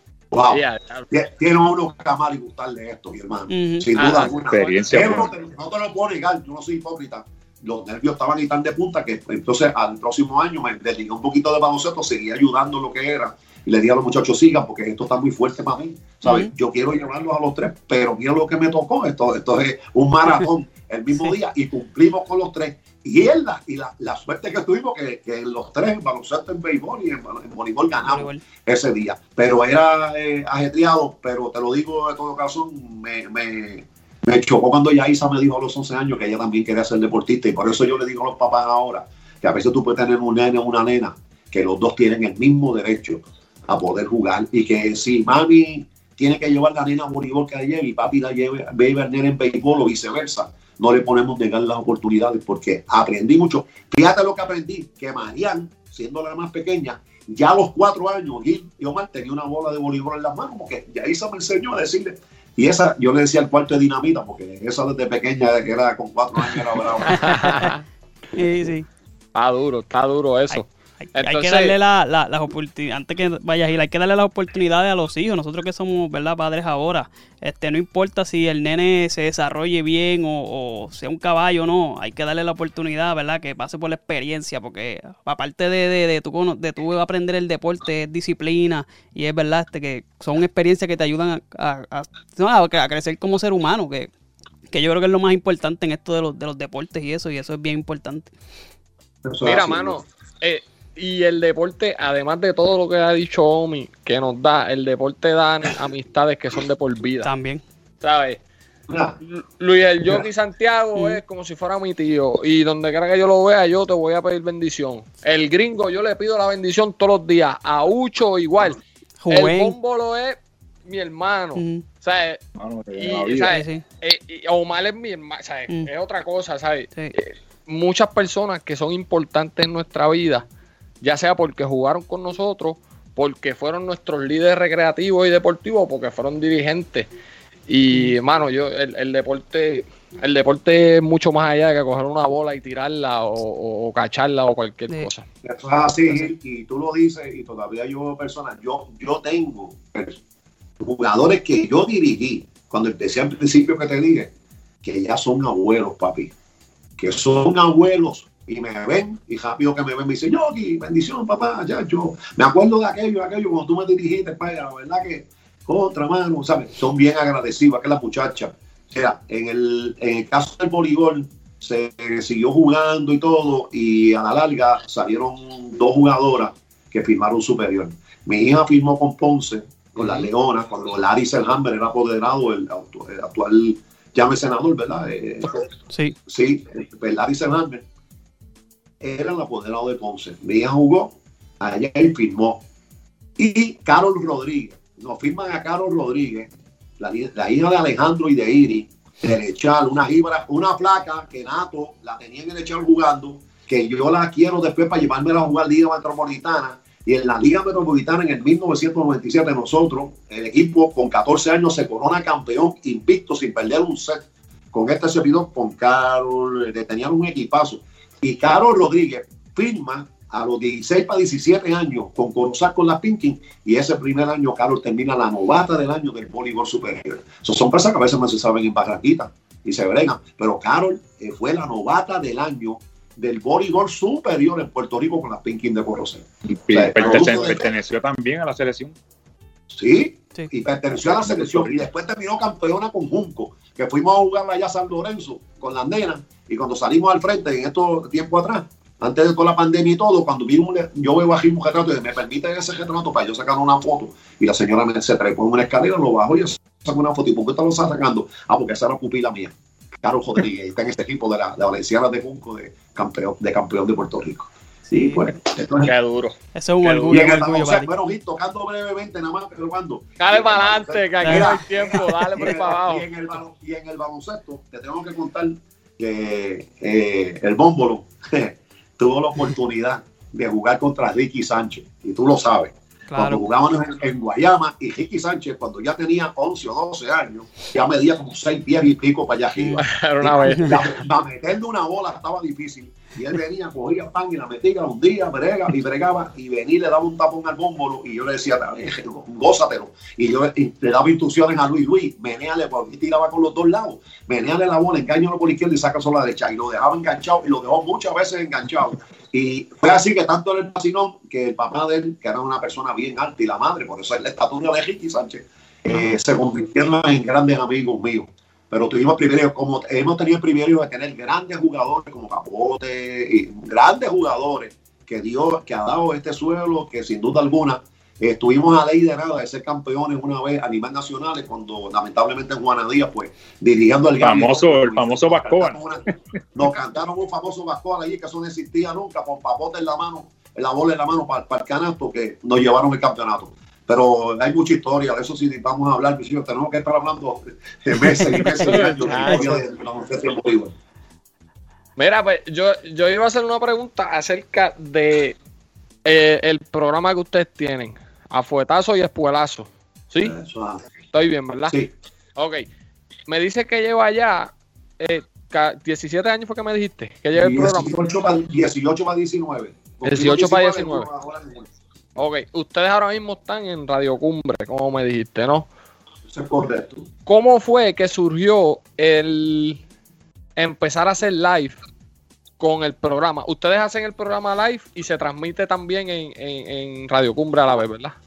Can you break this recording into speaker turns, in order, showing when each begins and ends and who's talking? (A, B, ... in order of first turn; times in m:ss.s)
0:00.3-1:07.6 A
0:00.5-0:01.1 B
0:03.5-0:04.0 C
0:04.0-0:05.2 B
0:04.4-0:05.3 D
0:16.2-0:16.5 C
0:28.0-0:28.4 C
1:07.1-1:07.8 B
1:07.1-1:07.7 C
1:08.3-1:08.9 C
1:09.3-1:11.7 B
1:10.5-1:34.1 C
1:34.7-1:38.3 C
1:39.2-1:40.0 A
1:39.4-1:47.3 B
1:47.2-1:47.6 C
1:48.0-1:48.4 B
1:48.9-1:49.2 A
1:49.2-2:02.4 B
1:59.2-1:59.7 C
2:01.6-2:01.8 C
2:02.6-2:03.6 D
2:03.0-2:10.4 B
2:03.5-2:03.8 C
2:11.0-2:17.1 B
2:17.7-2:25.2 B
2:25.4-2:30.2 A
2:30.8-2:34.3 A
2:34.8-2:36.3 A
2:37.0-3:05.7 A
3:00.0-3:00.2 B
3:05.9-3:06.2 C
3:06.3-3:07.8 A
3:09.0-3:12.6 A
3:13.4-3:57.7 A
3:56.5-3:58.9 D
3:59.7-4:25.9 A
4:24.9-4:25.2 C
4:25.8-4:27.3 B
4:26.5-4:27.9 C
4:27.1-5:36.0 A
4:30.2-4:33.0 B
4:31.2-4:32.0 C
4:43.1-4:43.4 C
4:49.7-4:50.9 B
5:34.2-5:35.8 D
5:36.5-5:50.7 A
5:48.0-5:48.7 C
5:48.3-5:49.6 B
5:52.0-5:55.4 B
5:56.0-6:00.4 B
6:00.2-6:00.8 A
6:01.1-6:01.8 B
6:02.4-6:02.6 B
6:03.3-6:08.0 B
6:07.3-6:11.7 A
6:10.0-6:11.1 B
6:12.2-6:15.7 B
6:16.3-6:17.1 A
6:17.2-6:19.8 B
6:20.6-6:21.8 B
6:22.6-6:28.2 B